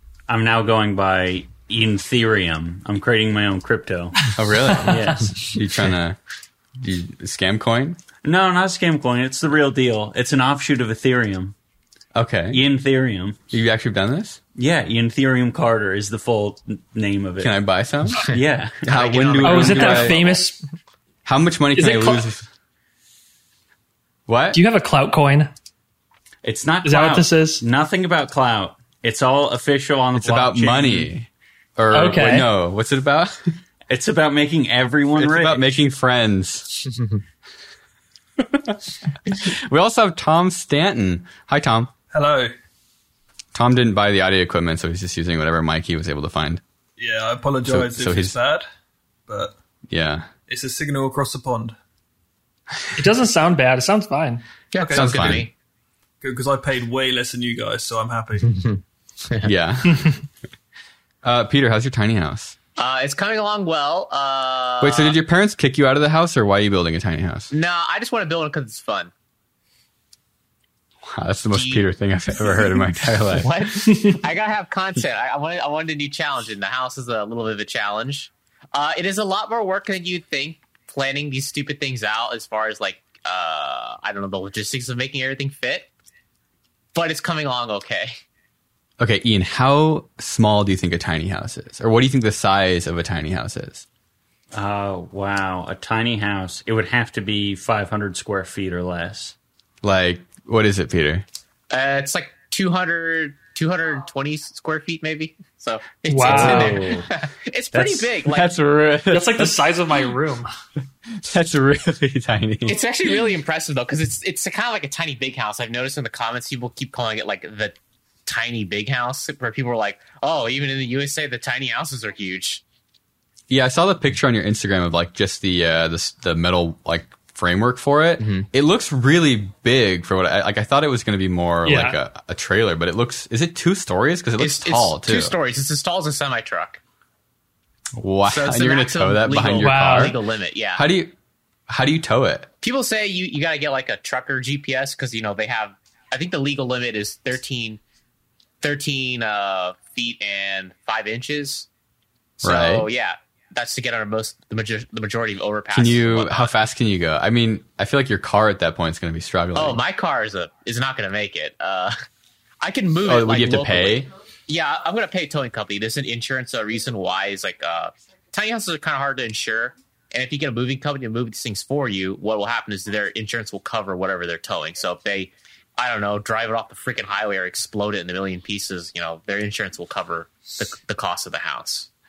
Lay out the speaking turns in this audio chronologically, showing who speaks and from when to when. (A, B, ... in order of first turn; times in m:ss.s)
0:00.3-0:05.6 A
0:04.4-0:06.2 B
0:06.8-0:08.0 B
0:08.2-0:11.6 A
0:12.2-0:12.6 B
0:12.5-0:13.4 A
0:13.5-0:14.4 B
0:14.6-0:17.5 A
0:17.4-0:18.3 B
0:18.2-0:18.8 A
0:18.8-0:20.4 C
0:18.9-0:20.2 B
0:19.4-0:20.6 D
0:21.3-0:22.5 B
0:21.8-0:22.2 D
0:24.3-0:24.6 B
0:24.5-0:25.5 D
0:26.4-0:31.1 A
0:26.8-0:27.6 D
0:30.2-0:33.6 B
0:31.9-0:32.5 D
0:33.9-0:35.8 A
0:35.2-0:36.9 B
0:38.4-0:41.9 B
0:42.1-0:42.5 E
0:43.5-0:46.6 B
0:47.0-0:48.7 E
0:47.7-0:48.4 B
0:49.3-0:49.6 E
0:49.9-0:50.3 B
0:50.5-0:51.8 E
0:53.0-0:54.4 D
0:54.7-0:55.5 C
0:54.8-0:55.4 E
0:54.9-0:55.5 B
0:56.2-0:58.6 E
0:59.4-1:00.2 B
1:01.2-1:02.6 B
1:02.8-1:05.2 C
1:04.8-1:07.5 B
1:07.5-1:09.1 C
1:11.0-1:13.5 B
1:11.5-1:11.8 C
1:13.3-1:25.9 C
1:26.9-1:28.1 C
1:29.0-1:33.8 B
1:34.5-1:39.3 A
1:39.8-1:41.2 B
1:41.7-1:48.5 C
1:46.1-1:46.8 D
1:46.2-1:47.1 A
1:47.7-1:49.6 B
1:49.1-1:50.5 D
1:51.1-1:52.8 B
1:52.7-2:02.6 C
2:03.5-2:15.3 B
2:11.7-2:12.0 D
2:14.4-2:16.8 C
2:18.0-2:20.2 B
2:18.3-2:20.8 C
2:19.6-2:20.2 D
2:20.8-2:21.2 B
2:21.7-2:22.5 B
2:22.6-2:27.8 C
2:28.6-2:31.7 C
2:32.4-2:36.5 C
2:32.4-2:32.9 B
2:35.7-2:39.8 B
2:39.6-2:42.0 C
2:42.6-3:01.9 C
2:43.1-2:44.1 B